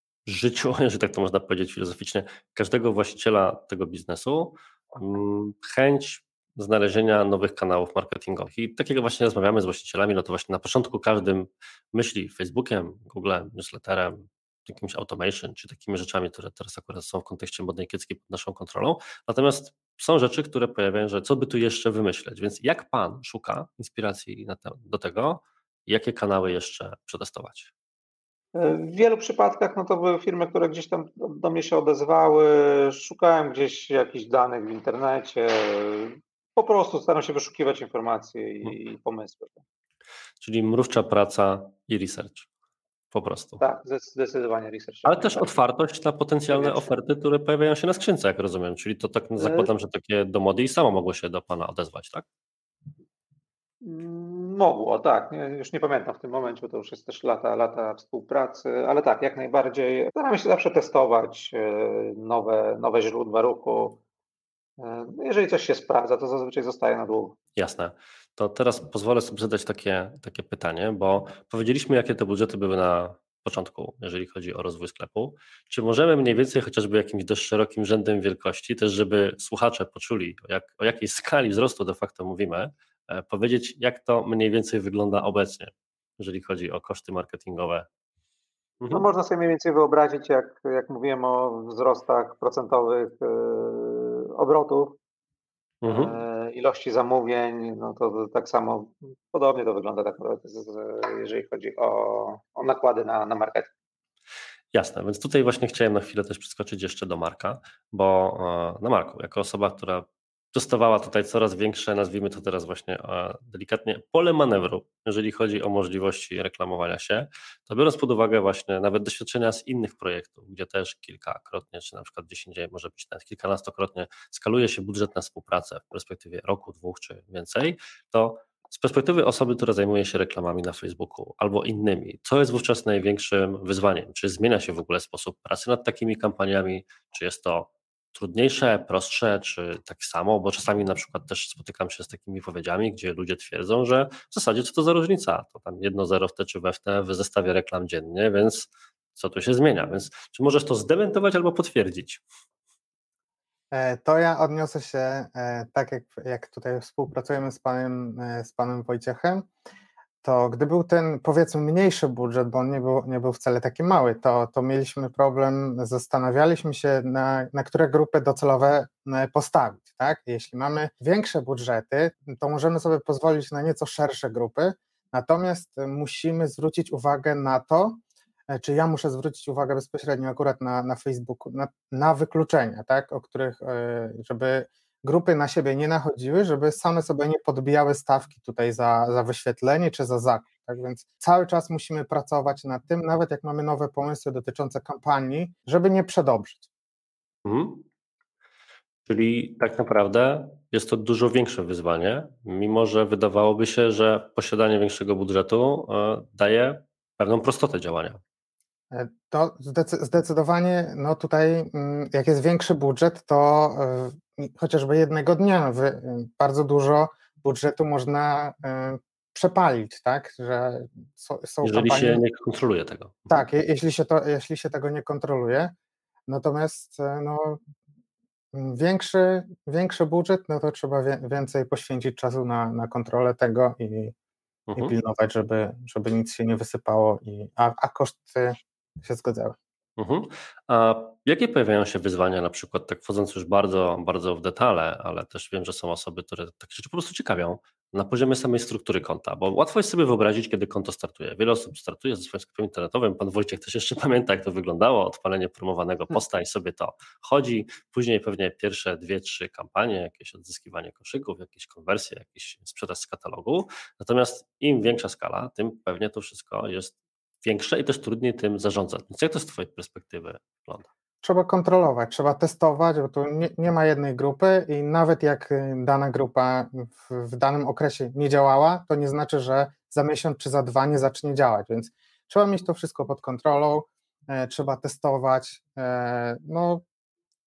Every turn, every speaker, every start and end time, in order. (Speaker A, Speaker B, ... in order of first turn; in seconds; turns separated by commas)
Speaker A: 0.2-27.7, Speaker B: 28.5-39.6, Speaker A: 40.4-42.5, Speaker A: 43.1-43.6, Speaker B: 43.6-45.6, Speaker A: 45.0-52.2, Speaker B: 46.5-46.9, Speaker B: 49.4-49.7, Speaker B: 53.8-64.0, Speaker B: 64.8-67.3, Speaker A: 67.5-87.9, Speaker A: 88.8-89.1, Speaker B: 88.9-95.0, Speaker A: 95.8-96.2, Speaker B: 95.8-103.7, Speaker A: 104.7-152.2, Speaker C: 153.7-159.5, Speaker C: 160.2-196.7, Speaker A: 197.4-197.8, Speaker A: 199.1-208.2, Speaker C: 208.9-222.2, Speaker A: 221.6-223.4, Speaker C: 223.3-225.7, Speaker C: 226.3-227.6, Speaker C: 228.5-234.1, Speaker A: 234.7-234.9, Speaker C: 234.8-239.6, Speaker A: 240.0-270.9, Speaker C: 271.2-286.8